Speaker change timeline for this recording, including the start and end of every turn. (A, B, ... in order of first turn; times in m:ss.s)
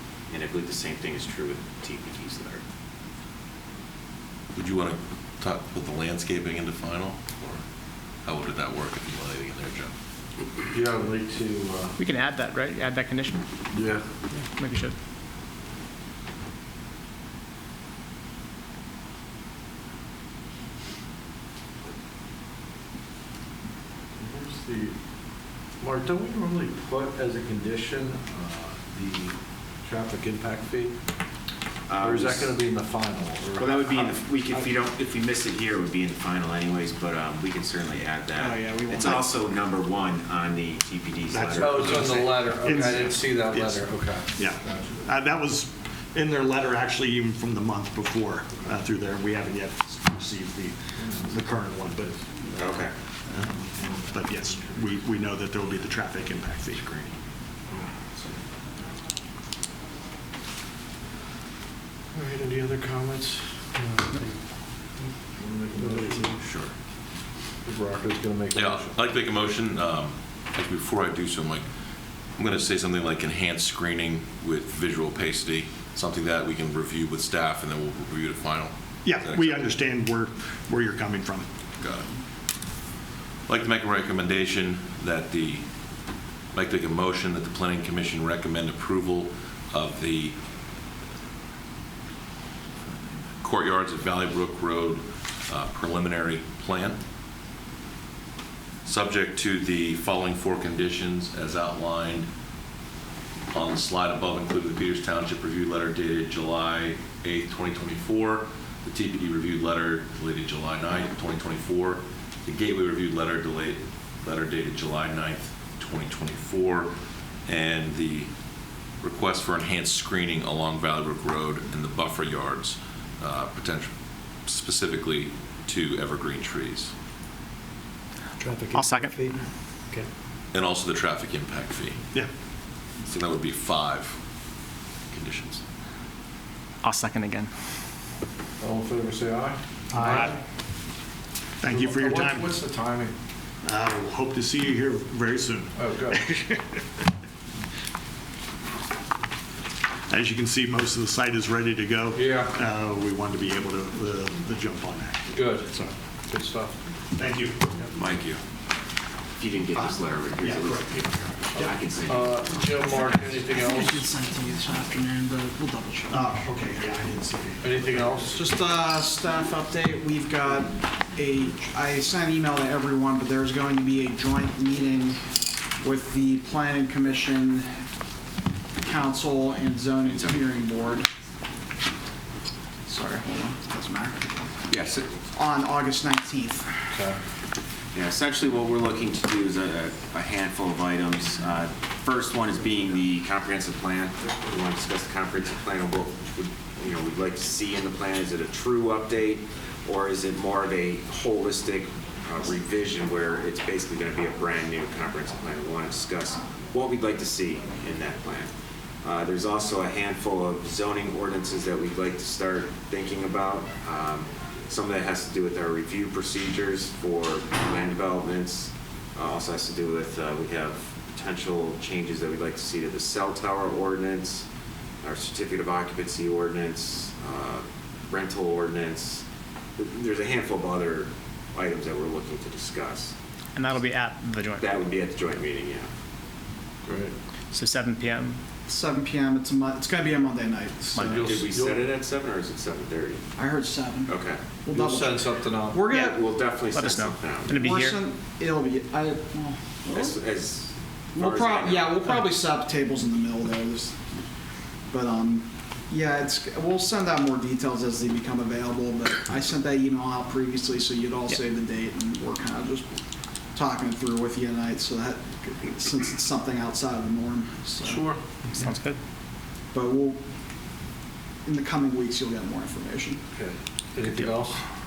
0:00.3-0:02.6 A
0:04.6-0:07.6 B
0:08.2-0:09.9 B
0:10.7-0:12.0 C
0:12.0-0:13.4 D
0:13.7-0:14.0 C
0:14.3-0:14.9 D
0:24.2-0:25.0 C
0:25.8-0:31.0 C
0:31.9-0:32.5 A
0:32.0-0:34.6 C
0:33.6-0:42.1 A
0:38.4-0:39.3 E
0:41.3-0:56.8 F
0:41.6-0:45.0 C
0:52.6-0:52.9 A
0:56.7-0:57.1 A
1:02.1-1:04.3 C
1:05.4-1:06.4 C
1:06.4-1:06.7 B
1:07.6-1:08.9 C
1:08.5-1:11.6 B
1:12.4-1:19.8 B
1:19.0-1:21.5 F
1:21.8-1:22.1 B
1:23.5-1:25.6 B
1:26.5-1:30.4 B
1:32.9-1:37.0 B
1:38.8-1:42.3 B
1:43.5-1:56.9 B
1:57.5-1:58.3 B
1:59.0-2:03.9 B
2:04.5-2:06.9 B
2:08.7-2:09.2 D
2:10.5-2:12.0 B
2:13.1-2:14.2 B
2:15.1-2:15.6 B
2:16.8-2:17.5 D
2:18.6-2:20.4 C
2:19.9-2:20.4 D
2:21.6-2:22.6 F
2:21.6-2:23.1 C
2:23.6-2:26.8 F
2:25.8-2:26.2 C
2:30.1-2:35.4 F
2:32.2-2:32.6 C
2:35.3-2:36.8 C
2:37.1-2:37.7 F
2:37.9-2:38.4 A
2:39.4-2:42.5 A
2:39.7-2:41.2 F
2:41.6-2:44.1 C
2:42.8-2:46.2 E
2:46.1-2:48.4 F
2:47.6-2:48.3 C
2:48.3-2:55.3 E
2:55.8-2:57.7 E
2:58.8-3:01.1 E
3:02.9-3:04.3 E
3:04.7-3:05.1 A
3:05.3-3:06.7 E
3:06.9-3:07.2 C
3:07.9-3:28.5 A
3:29.0-3:44.5 A
3:45.0-3:49.2 A
3:49.8-3:53.1 A
3:53.6-3:54.7 D
3:54.6-3:55.9 A
3:56.9-3:57.1 C
3:57.5-3:58.4 D
3:58.7-4:01.0 E
4:00.9-4:01.9 C
4:00.9-4:01.3 D
4:01.2-4:03.2 A
4:03.4-4:06.2 E
4:04.1-4:04.4 A
4:04.7-4:05.8 C
4:05.9-4:06.2 D
4:05.9-4:07.6 A
4:06.7-4:08.0 D
4:07.5-4:10.2 E
4:09.9-4:12.1 A
4:11.2-4:14.0 E
4:14.9-4:22.9 E
4:23.6-4:28.1 E
4:27.8-4:28.2 C
4:28.5-4:29.0 D
4:29.7-4:30.2 E
4:31.4-4:33.2 E
4:33.3-4:34.6 C